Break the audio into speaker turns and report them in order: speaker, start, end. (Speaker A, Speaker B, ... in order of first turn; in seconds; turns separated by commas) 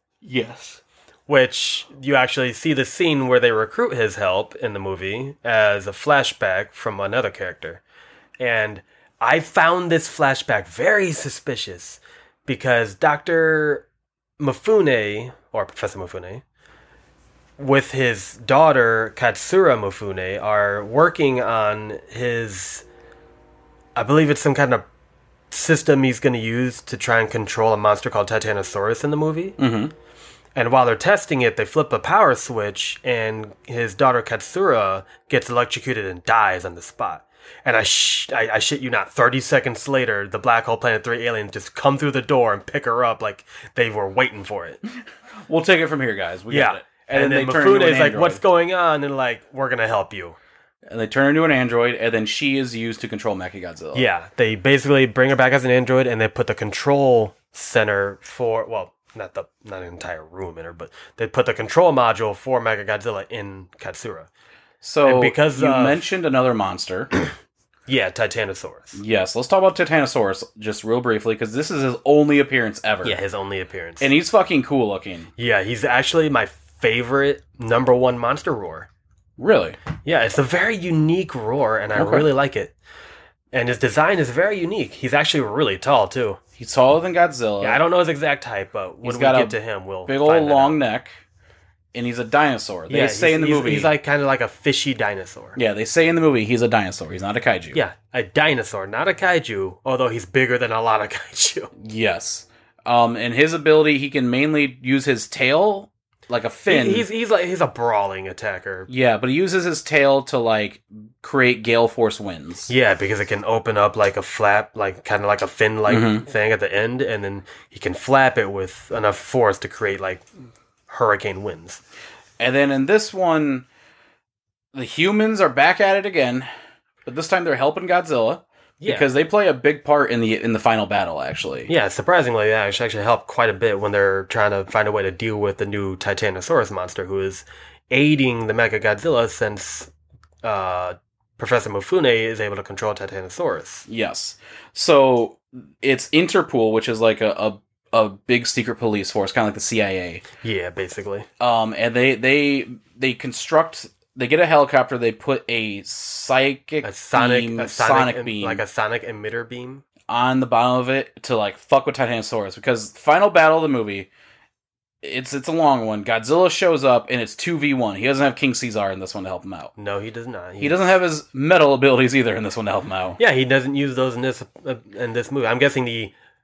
Speaker A: 0.2-0.8, Speaker B: 1.3-7.8, Speaker B: 8.4-13.9, Speaker B: 14.4-16.4, Speaker B: 17.6-22.9, Speaker B: 24.0-24.9, Speaker B: 25.5-29.6, Speaker A: 29.6-29.9, Speaker B: 30.6-44.8, Speaker A: 45.5-48.4, Speaker B: 46.5-50.4, Speaker A: 50.9-54.1, Speaker B: 53.9-64.3, Speaker A: 64.8-67.1, Speaker B: 65.0-66.0, Speaker B: 67.9-69.0, Speaker A: 69.0-73.2, Speaker B: 73.0-74.1, Speaker A: 74.0-75.3, Speaker B: 75.4-78.9, Speaker A: 79.4-79.8, Speaker B: 80.0-82.7, Speaker A: 82.0-82.3, Speaker B: 83.5-86.4, Speaker A: 86.6-87.8, Speaker B: 87.6-90.8, Speaker A: 89.0-91.2, Speaker A: 91.9-93.9, Speaker B: 92.9-95.6, Speaker A: 95.6-97.8, Speaker B: 97.7-101.7, Speaker A: 101.8-107.1, Speaker B: 106.7-108.9, Speaker A: 108.9-112.7, Speaker B: 112.7-120.2, Speaker A: 115.9-116.2, Speaker B: 120.9-121.8, Speaker A: 122.4-123.7, Speaker A: 124.7-126.5, Speaker A: 127.1-131.7, Speaker B: 128.8-129.1, Speaker B: 131.7-139.9, Speaker B: 140.4-143.9, Speaker A: 143.9-150.2, Speaker B: 150.4-151.3, Speaker A: 151.4-158.6, Speaker B: 156.8-159.8, Speaker A: 160.1-164.1, Speaker A: 165.0-169.7, Speaker B: 169.8-171.0, Speaker A: 170.6-173.2, Speaker B: 173.2-176.1